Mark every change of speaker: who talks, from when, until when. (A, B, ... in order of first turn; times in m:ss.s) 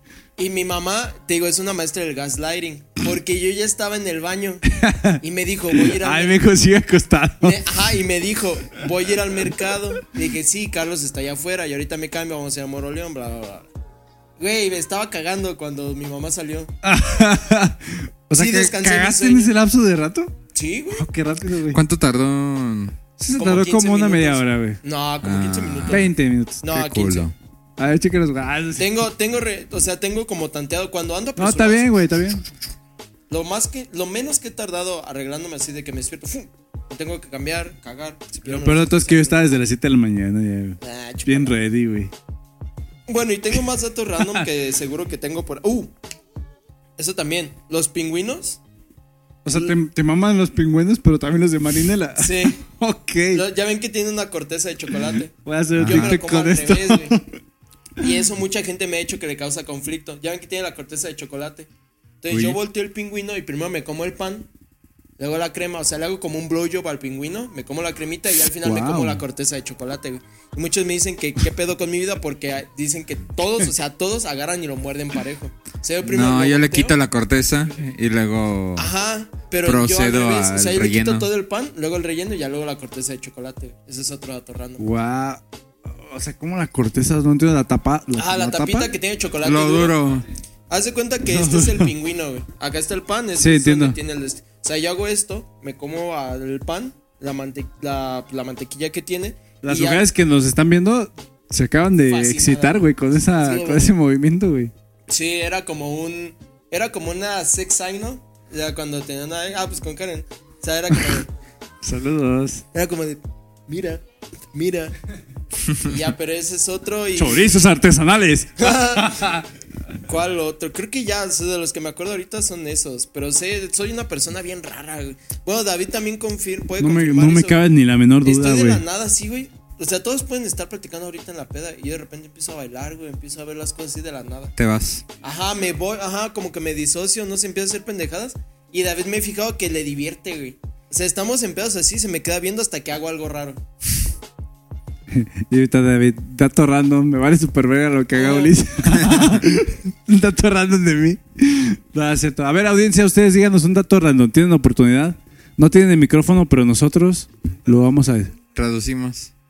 0:00.4-0:04.6 A
0:04.7-0:05.2 B
0:05.2-0:06.4 A
0:05.7-0:07.6 B
0:07.4-0:13.7 A
0:14.4-0:16.7 A
0:16.8-0:20.3 B
0:18.4-0:19.5 A
0:20.5-0:21.1 A
0:21.0-0:21.8 B
0:21.7-0:23.0 C
0:23.2-0:24.8 B
0:23.4-0:27.3 A
0:25.2-0:26.1 C
0:25.9-0:26.6 B
0:26.7-0:27.4 C
0:27.8-0:28.9 B
0:28.8-0:31.9 A
0:31.4-0:32.4 B
0:33.3-0:39.5 A
0:38.4-0:42.1 B
0:40.8-0:41.6 A
0:43.1-0:45.9 A
0:47.0-0:48.6 A
0:49.4-0:53.4 B
0:52.2-0:52.6 A
0:53.3-0:57.2 A
0:55.4-0:57.3 B
0:55.8-0:56.2 C
0:58.0-1:01.7 A
1:02.2-1:04.5 A
1:02.3-1:02.6 C
1:05.2-1:17.0 A
1:08.6-1:09.2 B
1:16.0-1:18.9 C
1:18.8-1:24.8 A
1:19.6-1:21.3 C
1:24.8-1:25.4 B
1:26.0-1:28.9 B
1:28.2-1:30.0 A
1:29.4-1:30.3 C
1:30.7-1:40.1 A
1:31.3-1:31.9 B
1:33.4-1:34.0 B
1:39.6-1:44.7 B
1:42.0-1:43.9 A
1:45.1-1:51.3 A
1:50.9-1:51.2 B
1:51.8-1:52.6 B
1:52.7-1:54.0 A
1:54.5-1:55.0 A
1:55.8-1:57.6 A
1:57.2-1:59.4 B
1:58.6-1:59.3 A
2:00.0-2:07.6 A
2:06.8-2:08.8 B
2:08.2-2:14.5 A
2:14.6-2:15.0 C
2:15.2-2:23.6 A
2:25.1-2:38.3 B
2:28.1-2:28.6 A
2:29.0-2:29.4 C
2:38.6-2:39.3 C